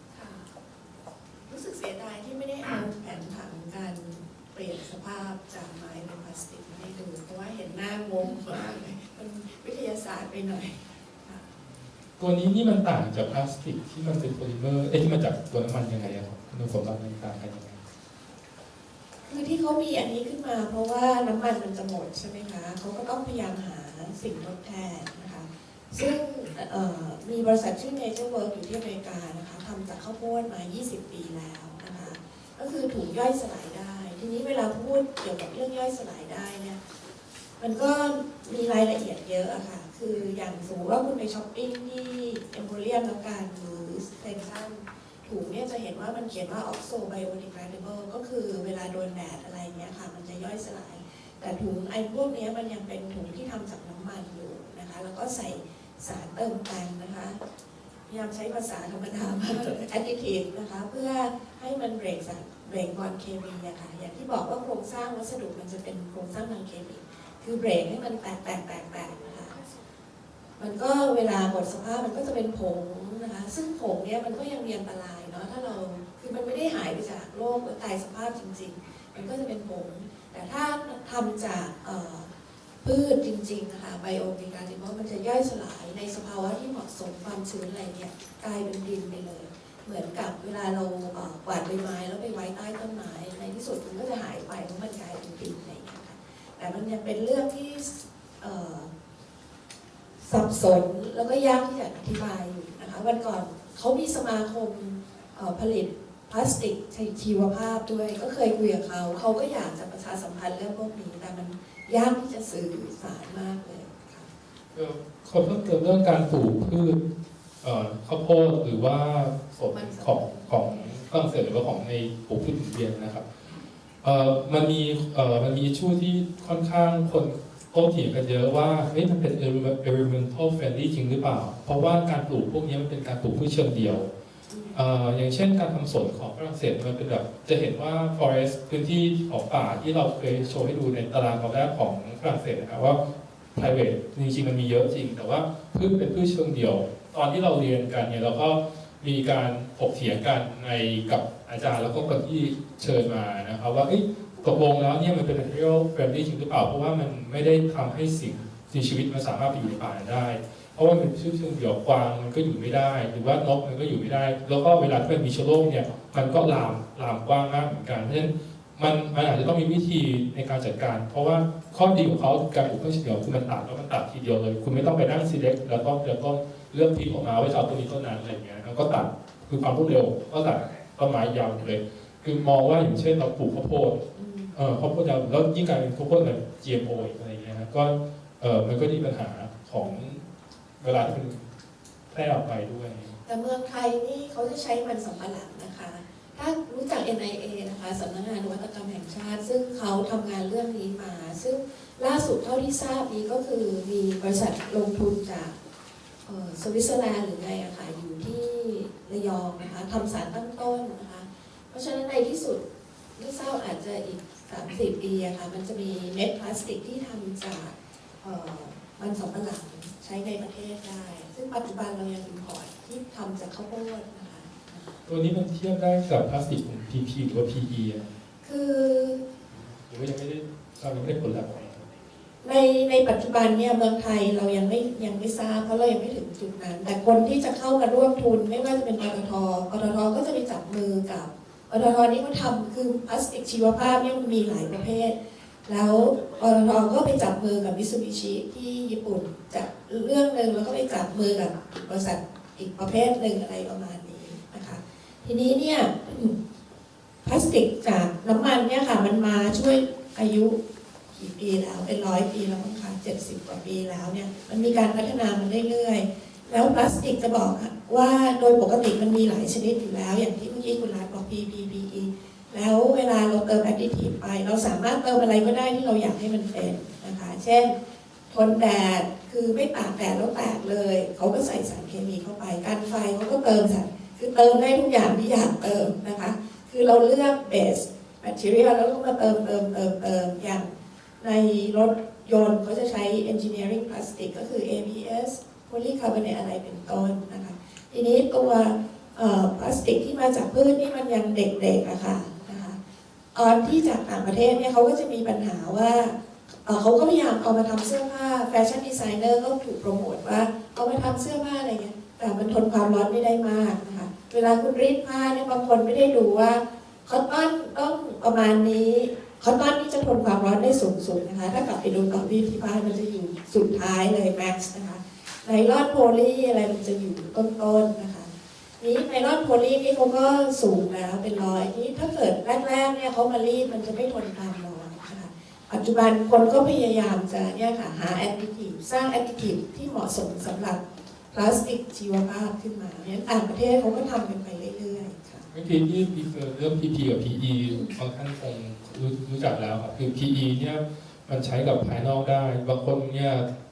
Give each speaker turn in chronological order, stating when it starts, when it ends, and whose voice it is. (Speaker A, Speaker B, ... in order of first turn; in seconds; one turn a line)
Speaker A: 0.1-0.5
Speaker A: 1.4-11.5
Speaker B: 12.2-17.8
Speaker A: 19.2-36.8
Speaker A: 37.6-57.4
Speaker A: 58.1-69.6
Speaker A: 70.6-82.3
Speaker A: 82.8-98.9
Speaker A: 100.2-114.3
Speaker B: 114.7-117.0
Speaker B: 117.6-123.3
Speaker A: 119.7-120.9
Speaker B: 124.0-134.1
Speaker A: 134.5-134.8
Speaker B: 134.7-143.0
Speaker B: 143.5-184.0
Speaker A: 184.1-184.5
Speaker B: 184.5-190.2
Speaker A: 189.8-190.1
Speaker B: 190.8-191.4
Speaker B: 192.1-193.2
Speaker A: 193.2-205.6
Speaker A: 206.2-212.6
Speaker A: 213.2-225.0
Speaker B: 225.1-228.1
Speaker A: 228.4-229.2
Speaker B: 229.5-231.9
Speaker A: 232.4-256.3
Speaker A: 257.2-260.6
Speaker A: 261.1-277.7
Speaker A: 278.3-302.8
Speaker A: 303.3-340.8
Speaker A: 341.3-345.5
Speaker B: 345.5-353.4
Speaker A: 347.7-348.0